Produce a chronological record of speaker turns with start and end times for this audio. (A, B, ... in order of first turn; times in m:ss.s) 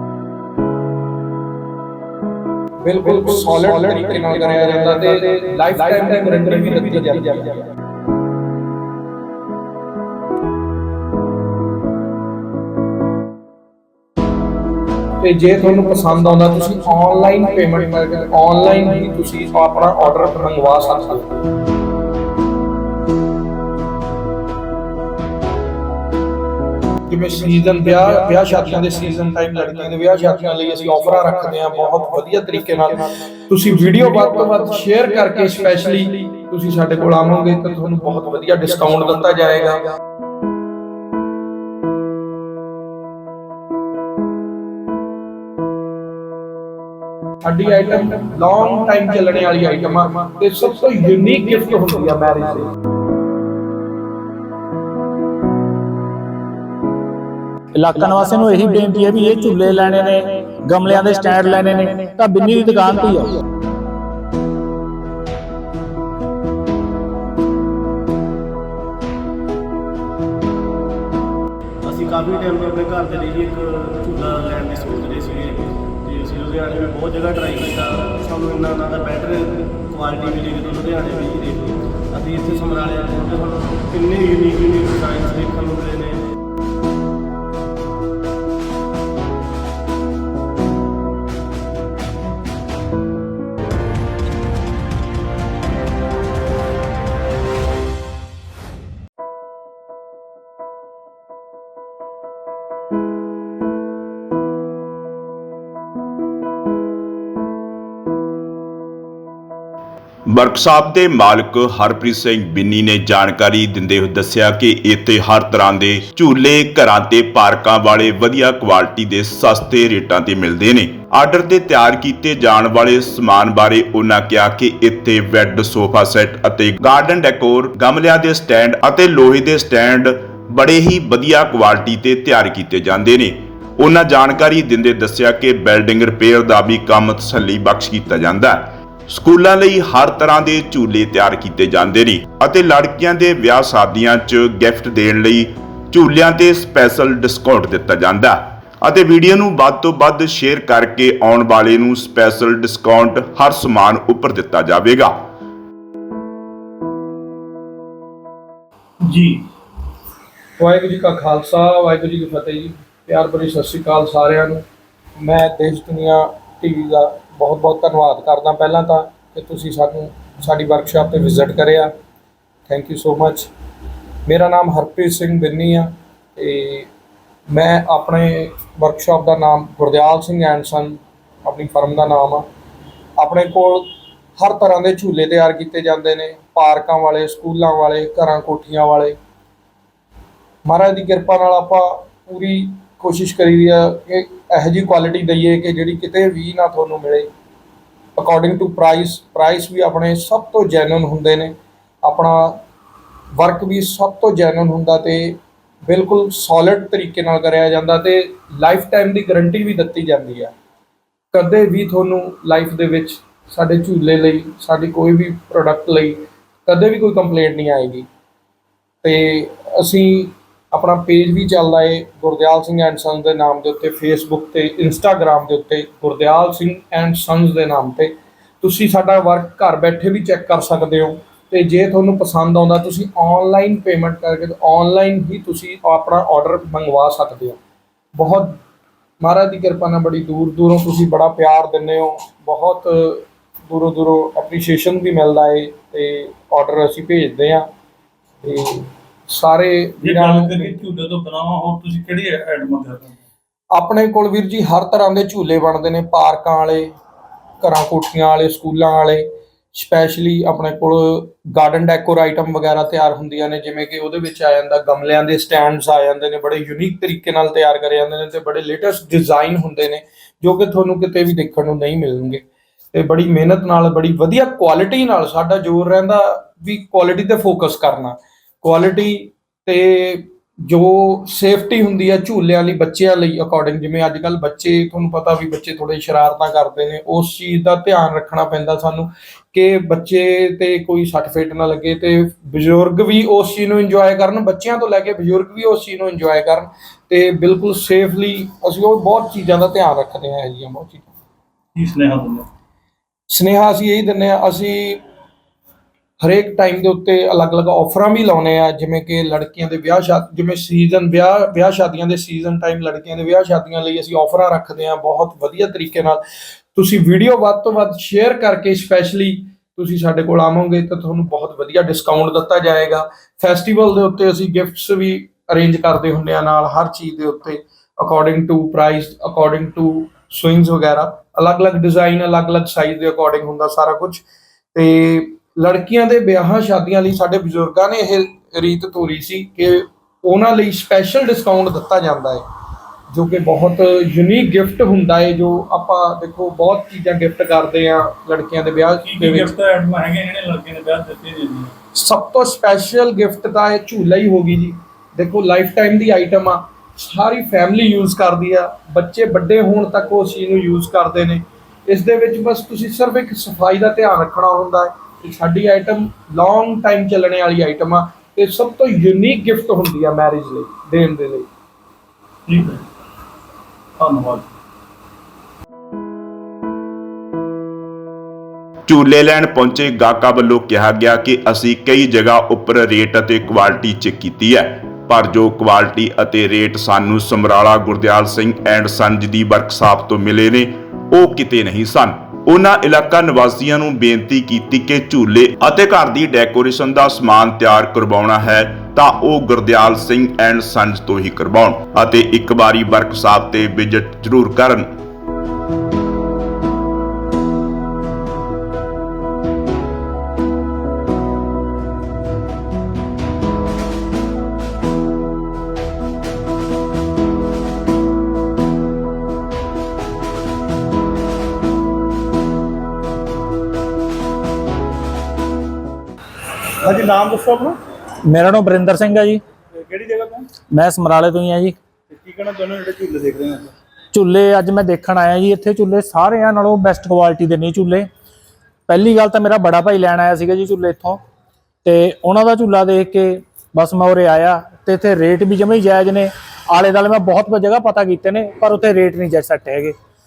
0:02.8-0:07.6 A
0:15.2-0:21.4 A
0:27.1-0:39.8 A
0:47.4-0:52.7 A
0:57.8-1:03.4 B
1:11.8-1:26.2 C
1:50.3-2:35.1 D
2:40.6-2:44.6 A
2:45.2-2:51.9 A
2:52.7-2:53.5 A
2:54.3-2:56.9 A
2:57.5-3:02.4 A
3:03.2-3:09.2 A
3:10.6-3:17.3 A
3:18.2-3:22.6 A
3:23.4-3:30.5 A
3:31.3-3:38.1 A
3:39.0-3:57.6 A
3:58.2-3:58.6 A
3:59.2-4:07.7 A
4:08.4-4:10.7 A
4:10.0-4:13.2 E
4:13.7-4:16.9 A
4:17.6-5:01.1 A
5:01.8-5:02.4 E
5:03.3-5:05.0 A
5:06.2-5:16.2 A
5:16.8-5:34.2 A
5:34.8-5:42.4 A
5:43.1-5:49.5 A
5:49.0-5:51.7 E
5:51.9-6:11.5 A
6:12.5-6:12.8 E
6:14.0-6:14.5 E
6:18.9-6:44.8 D
7:06.8-7:07.8 E
7:08.2-7:09.4 B
7:09.7-7:10.5 E
7:10.7-7:11.8 B
7:12.1-7:13.7 E
7:14.1-7:18.1 B
7:18.9-7:21.2 B
7:21.8-7:30.0 B